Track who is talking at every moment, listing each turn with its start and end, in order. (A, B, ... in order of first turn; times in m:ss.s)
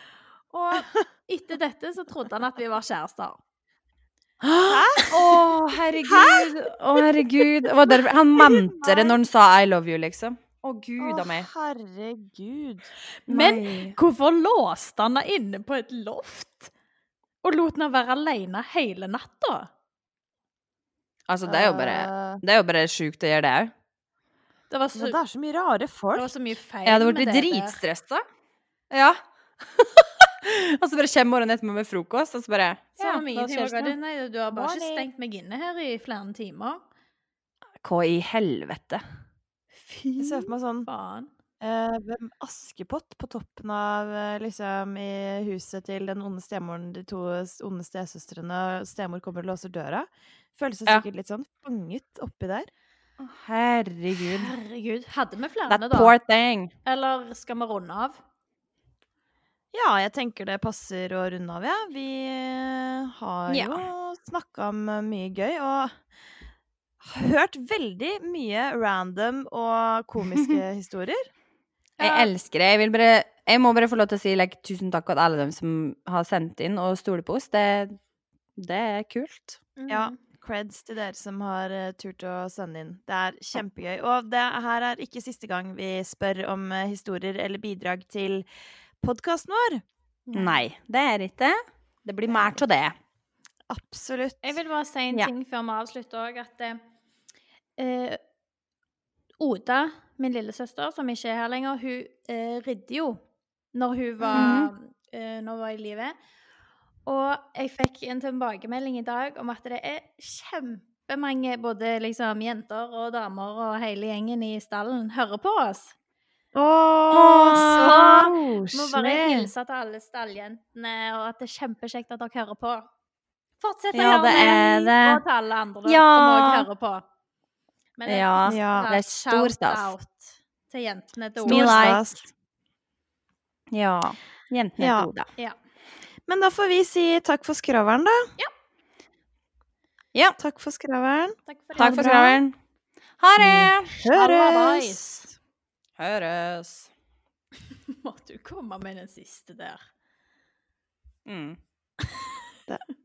0:00.5-0:03.4 A
0:04.4-0:11.5 B
0:04.7-0:05.4 C
0:06.0-0:07.2 C
0:08.4-0:09.2 C
0:11.0-0:12.9 C
0:13.3-0:14.0 B
0:13.3-0:16.7 A
0:17.4-0:19.7 A
0:21.3-0:23.7 B
0:21.4-0:22.4 C
0:24.7-0:25.2 A
0:24.9-0:26.3 C
0:26.1-0:27.8 A
0:26.8-0:28.2 B
0:28.9-0:29.2 B
0:29.7-0:34.0 B
0:33.0-0:36.8 A
0:34.5-0:35.1 C
0:37.8-0:39.0 B
0:39.8-0:41.3 A
0:40.2-0:40.9 C
0:41.6-0:52.7 C
0:53.2-0:54.5 B
0:54.2-0:56.1 A
0:55.7-0:56.7 B
0:56.8-0:58.2 A
0:59.7-1:06.0 C
1:03.5-1:03.8 B
1:07.0-1:11.3 C
1:12.0-1:12.3 A
1:12.0-1:18.0 B
1:18.6-1:19.6 B
1:19.8-1:20.2 A
1:19.9-1:28.4 C
1:29.0-1:29.8 C
1:30.3-1:30.6 A
1:30.3-1:32.9 B
1:32.3-1:32.6 C
1:33.7-1:34.6 C
1:34.4-1:36.8 A
1:37.8-1:38.2 A
1:39.4-1:43.2 A
1:43.7-1:46.1 A
1:44.2-1:44.6 C
1:44.4-1:44.7 B
1:47.0-1:55.9 A
1:56.6-1:59.5 C
1:57.1-1:58.3 B
1:57.8-2:02.9 A
2:03.6-2:07.0 A
2:03.9-2:05.2 B
2:05.9-2:06.7 B
2:08.0-2:12.0 A
2:08.1-2:09.9 B
2:08.4-2:08.9 C
2:11.4-2:12.0 B
2:11.4-2:12.3 C
2:13.7-2:15.3 B
2:14.8-2:15.1 C
2:16.3-2:18.3 C
2:20.4-2:22.4 C
2:21.5-2:22.2 A
2:21.7-2:22.5 B
2:23.2-2:24.0 B
2:23.4-2:25.0 C
2:24.0-2:25.3 A
2:26.0-2:26.9 B
2:27.9-2:29.8 A
2:31.3-2:31.6 B